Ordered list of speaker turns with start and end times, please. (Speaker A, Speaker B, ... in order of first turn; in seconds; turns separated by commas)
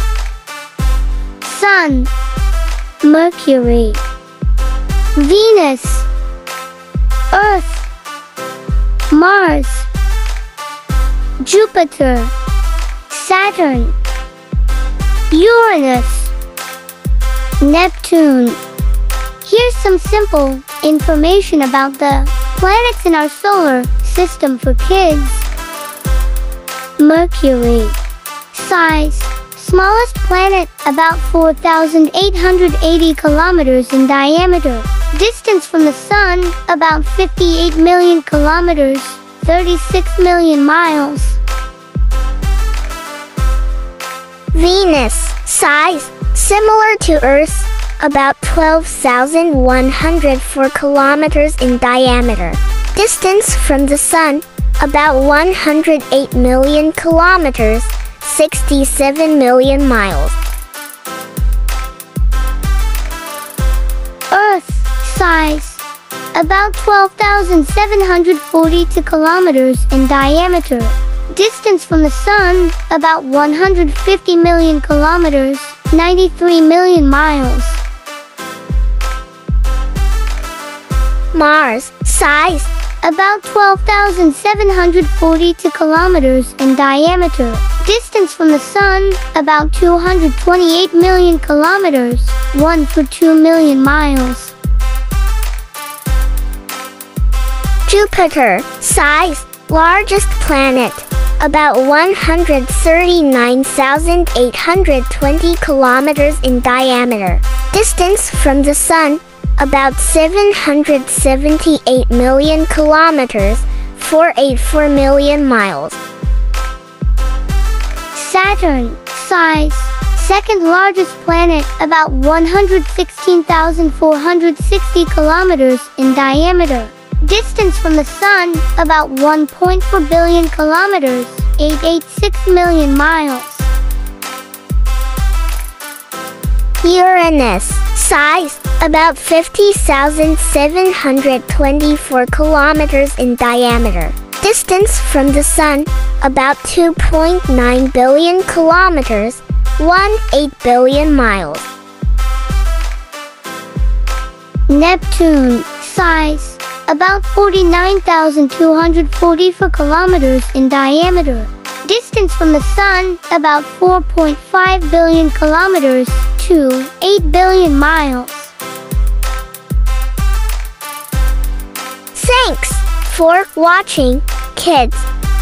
Speaker A: 1.4-2.1, Speaker A: 3.0-4.0, Speaker A: 5.2-6.1, Speaker A: 7.3-7.9, Speaker A: 9.1-9.9, Speaker A: 11.4-12.3, Speaker A: 13.1-13.9, Speaker A: 15.3-16.3, Speaker A: 17.6-18.6, Speaker A: 19.4-25.4, Speaker A: 27.0-27.9, Speaker A: 28.5-41.4, Speaker B: 44.5-60.4, Speaker A: 64.3-65.8, Speaker A: 66.3-77.8, Speaker B: 81.3-82.7, Speaker A: 83.0-94.5, Speaker B: 97.9-116.0, Speaker A: 118.1-133.7, Speaker B: 136.8-151.7, Speaker A: 154.7-168.5, Speaker B: 172.1-175.1